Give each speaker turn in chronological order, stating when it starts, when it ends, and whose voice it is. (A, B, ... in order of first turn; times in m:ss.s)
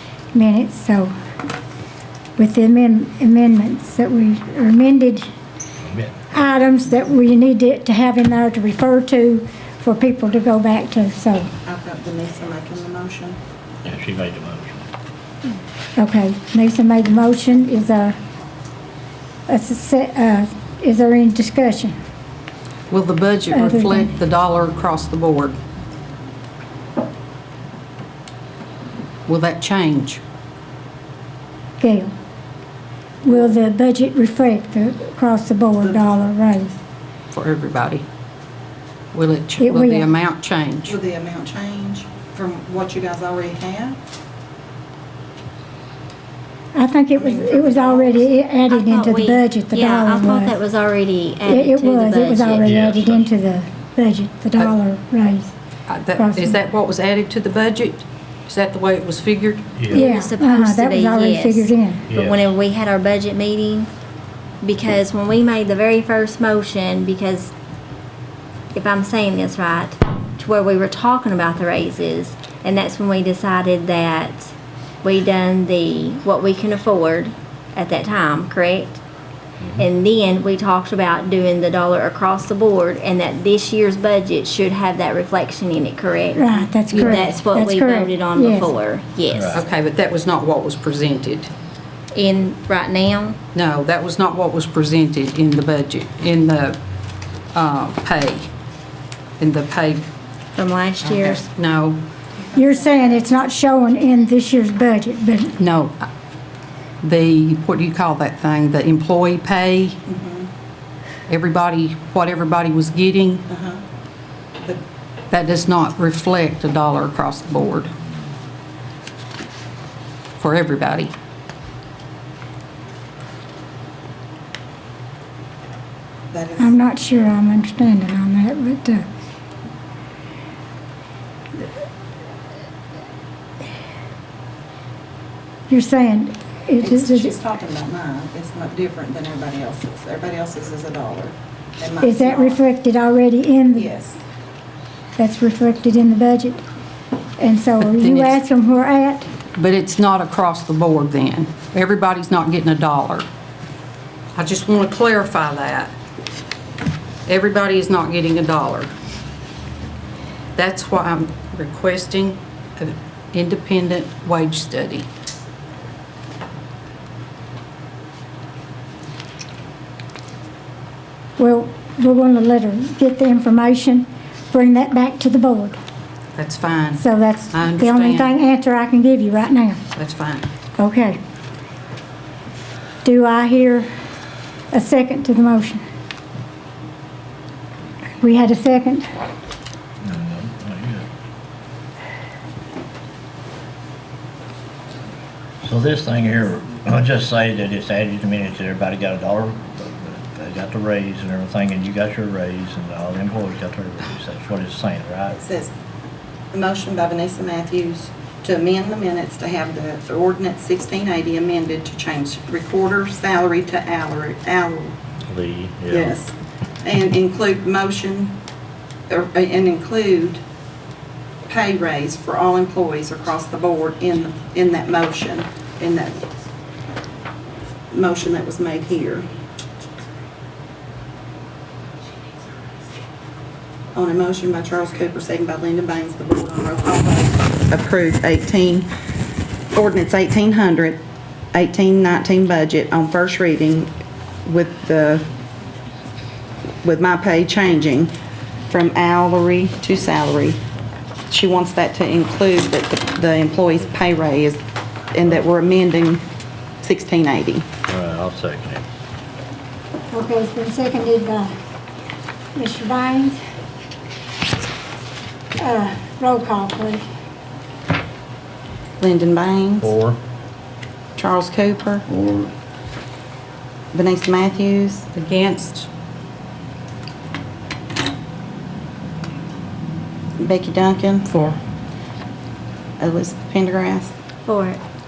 0:00.3-0:01.1 A
0:02.4-0:05.3 A
0:05.8-0:06.1 B
0:06.3-0:11.5 A
0:11.6-0:13.4 C
0:13.8-0:14.9 B
0:16.0-0:18.2 A
0:19.5-0:22.0 A
0:22.9-0:25.6 D
0:23.5-0:24.1 A
0:29.3-0:30.2 D
0:31.8-0:32.1 A
0:33.2-0:36.8 A
0:37.3-0:38.0 D
0:39.1-0:41.0 D
0:39.6-0:40.1 A
0:40.9-0:44.0 C
0:46.7-0:50.5 A
0:47.2-0:48.3 C
0:48.7-0:52.8 E
0:51.5-0:55.5 A
0:52.6-0:53.3 B
0:55.9-0:59.7 D
0:56.2-0:56.6 A
0:59.8-1:00.0 B
0:59.9-1:03.9 E
0:59.9-1:02.1 A
1:02.1-1:02.4 B
1:04.6-1:07.5 E
1:08.7-1:14.5 E
1:15.0-1:19.0 E
1:19.8-1:29.6 E
1:26.4-1:28.7 A
1:26.9-1:27.2 D
1:29.3-1:29.6 B
1:29.5-1:31.5 D
1:32.1-1:33.4 E
1:33.5-1:36.8 D
1:37.5-1:38.5 D
1:39.4-1:40.0 D
1:40.5-1:41.5 E
1:41.3-1:42.0 D
1:42.4-1:43.0 C
1:42.6-1:45.6 A
1:45.6-1:46.1 D
1:47.0-1:50.0 D
1:50.1-1:50.5 C
1:51.3-1:53.5 D
1:53.5-1:53.8 C
1:55.3-1:57.9 D
2:00.4-2:01.1 D
2:06.3-2:06.7 C
2:06.6-2:09.1 A
2:15.7-2:17.3 A
2:16.8-2:22.6 C
2:22.0-2:23.9 A
2:23.8-2:24.2 C
2:25.2-2:26.6 A
2:27.4-2:29.3 A
2:27.8-2:28.4 D
2:29.6-2:33.3 D
2:34.4-2:35.9 D
2:37.3-2:38.9 D
2:40.6-2:45.1 D
2:51.4-2:55.8 A
2:56.4-2:58.3 D
2:57.0-2:59.8 A
3:00.0-3:00.5 D
3:00.8-3:01.2 A
3:03.0-3:03.9 A
3:04.7-3:05.8 A
3:08.2-3:09.1 A
3:10.0-3:11.1 B
3:15.6-3:25.4 B
3:25.3-3:25.7 C
3:26.5-3:34.9 C
3:35.3-3:36.2 B
3:35.9-3:38.4 C
3:39.1-3:40.4 C
3:41.5-3:46.3 C
3:47.9-3:49.3 C
3:53.9-3:58.9 C
3:59.7-4:01.0 C
4:01.5-4:03.9 C
4:04.4-4:05.3 C
4:06.8-4:08.1 C
4:08.7-4:10.6 C
4:11.3-4:14.6 C
4:15.1-4:16.2 C
4:16.8-4:17.7 C
4:17.9-4:18.8 B
4:20.1-4:21.5 A
4:22.6-4:23.4 A
4:25.6-4:27.0 A
4:29.0-4:29.9 C
4:29.8-4:30.2 B
4:31.2-4:32.0 C
4:33.9-4:35.1 C
4:35.1-4:35.9 D
4:40.4-4:41.3 C
4:41.3-4:41.6 D
4:43.0-4:44.1 C
4:44.4-4:44.8 E